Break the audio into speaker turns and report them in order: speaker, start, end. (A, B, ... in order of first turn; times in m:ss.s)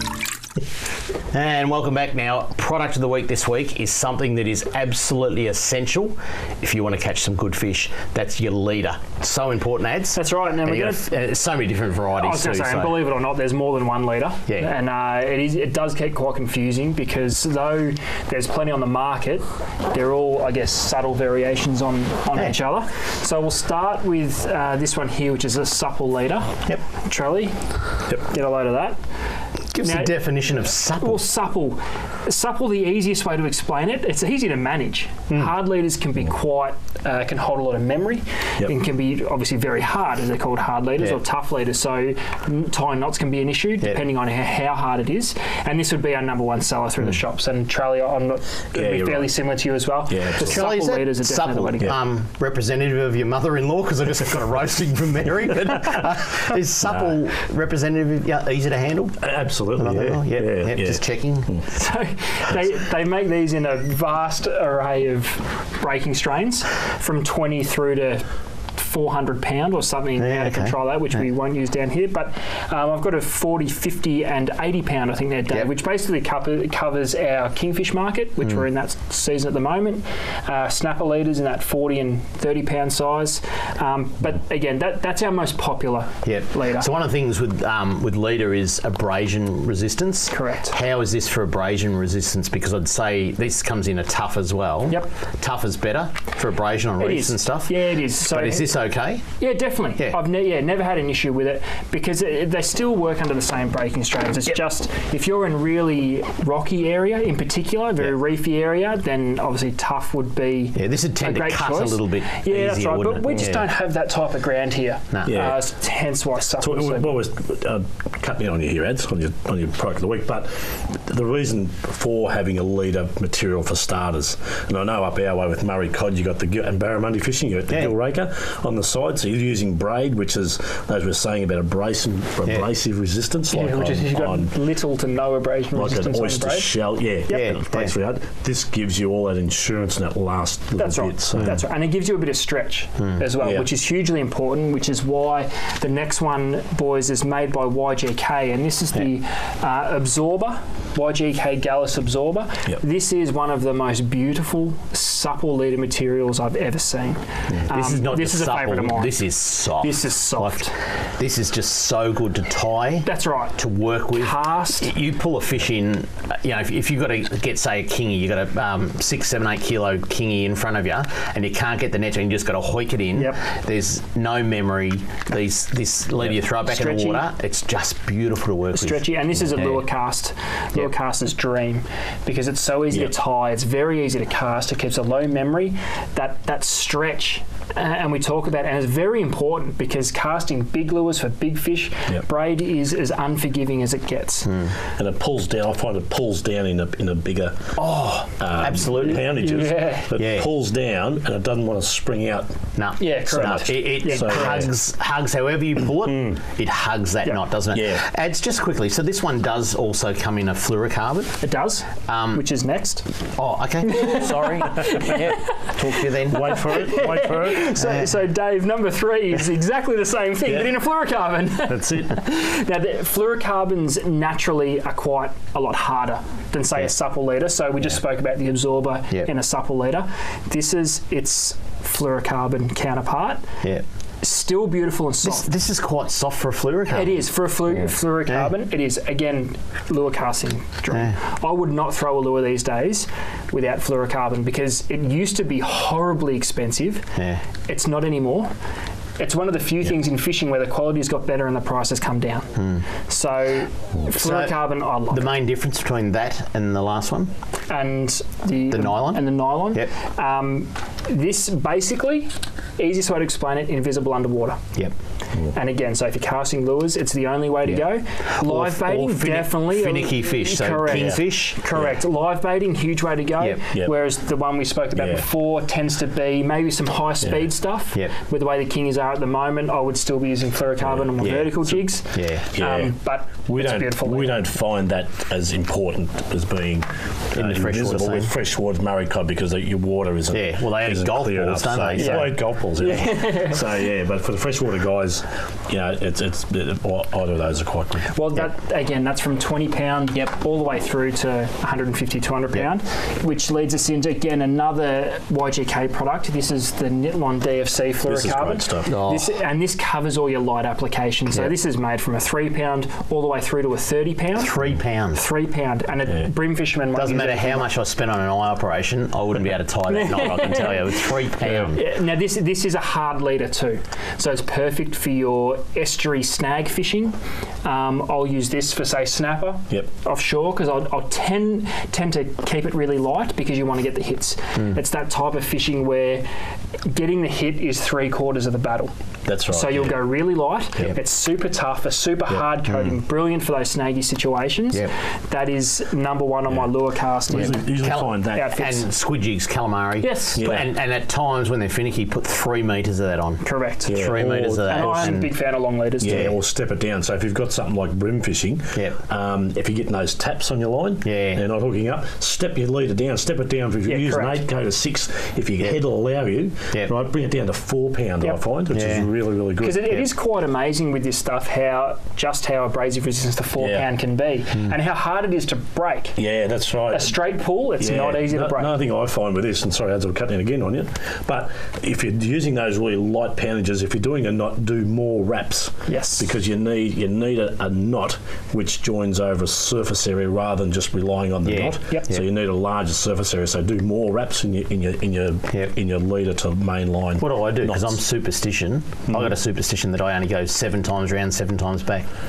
0:01.3-0:13.0 A
0:10.2-0:11.1 B
0:12.2-0:29.0 B
0:29.7-0:31.2 A
0:29.8-0:51.9 B
0:48.7-0:49.4 C
0:50.1-0:50.6 C
0:50.4-0:59.2 A
0:59.2-1:01.7 C
0:59.7-1:01.6 A
1:01.7-1:26.9 B
1:10.2-1:10.7 A
1:26.2-1:39.2 A
1:30.3-1:30.8 B
1:37.0-1:38.7 B
1:39.4-1:57.1 B
1:50.8-1:53.6 A
1:55.3-1:55.6 C
1:56.6-2:14.6 C
2:13.5-2:16.7 B
2:15.7-2:21.6 C
2:17.3-2:17.9 A
2:20.8-2:39.2 B
2:23.4-2:23.7 C
2:37.7-2:59.8 A
2:39.8-2:40.8 B
2:43.0-2:43.6 B
2:44.1-2:44.9 B
2:56.6-2:57.3 B
2:58.7-3:14.6 B
3:14.4-3:14.8 A
3:15.0-3:17.8 C
3:17.8-3:19.2 A
3:18.4-3:22.5 C
3:19.0-3:20.1 B
3:20.2-3:20.5 A
3:22.8-3:31.4 A
3:23.0-3:24.7 B
3:24.1-3:24.7 C
3:27.7-3:28.0 C
3:31.4-3:33.1 B
3:32.1-3:32.4 A
3:33.4-3:35.1 A
3:33.8-3:35.7 B
3:34.5-3:35.5 C
3:35.6-3:36.6 A
3:36.3-3:53.4 B
3:36.3-3:37.8 C
3:37.8-3:38.0 A
3:41.7-3:42.1 C
3:54.2-3:55.5 B
3:55.2-3:57.2 A
3:56.9-4:07.1 B
4:00.9-4:01.2 A
4:07.2-4:07.4 A
4:07.7-4:08.5 B
4:09.2-4:15.3 B
4:12.6-4:12.9 A
4:14.1-4:17.3 A
4:17.7-4:24.7 B
4:18.7-4:19.9 A
4:25.5-4:44.4 B
4:28.3-4:31.6 A
4:30.9-4:31.2 C
4:34.9-4:35.2 C
4:37.2-4:37.5 C
4:40.8-4:41.9 C
4:41.2-4:41.5 A
4:42.1-4:42.5 A
4:42.5-4:58.2 C
4:47.4-4:48.3 A
4:50.3-4:52.3 A
4:51.9-4:53.6 B
4:58.1-5:14.6 B
5:08.0-5:09.0 C
5:08.9-5:09.3 A
5:14.4-5:15.2 A
5:15.1-5:17.7 B
5:17.0-5:21.8 A
5:19.9-5:21.1 B
5:21.7-5:36.3 B
5:36.8-5:38.9 B
5:39.3-5:40.0 C
5:39.5-5:47.7 B
5:42.7-5:43.0 A
5:47.3-5:48.5 C
5:47.8-5:55.3 A
5:48.3-5:48.9 B
5:50.0-5:50.5 B
5:50.4-5:50.7 C
5:53.4-5:54.0 B
5:53.9-5:55.2 C
5:54.7-5:56.3 B
5:56.0-6:10.1 C
5:56.0-5:56.3 A
6:01.0-6:01.4 A
6:03.9-6:04.4 B
6:08.7-6:09.1 A
6:09.6-6:16.2 B
6:13.6-6:13.9 C
6:16.2-6:17.2 C
6:16.9-6:18.7 B
6:17.8-6:38.0 C
6:25.9-6:26.3 B
6:31.4-6:32.2 A
6:37.2-6:42.1 A
6:39.1-6:39.4 C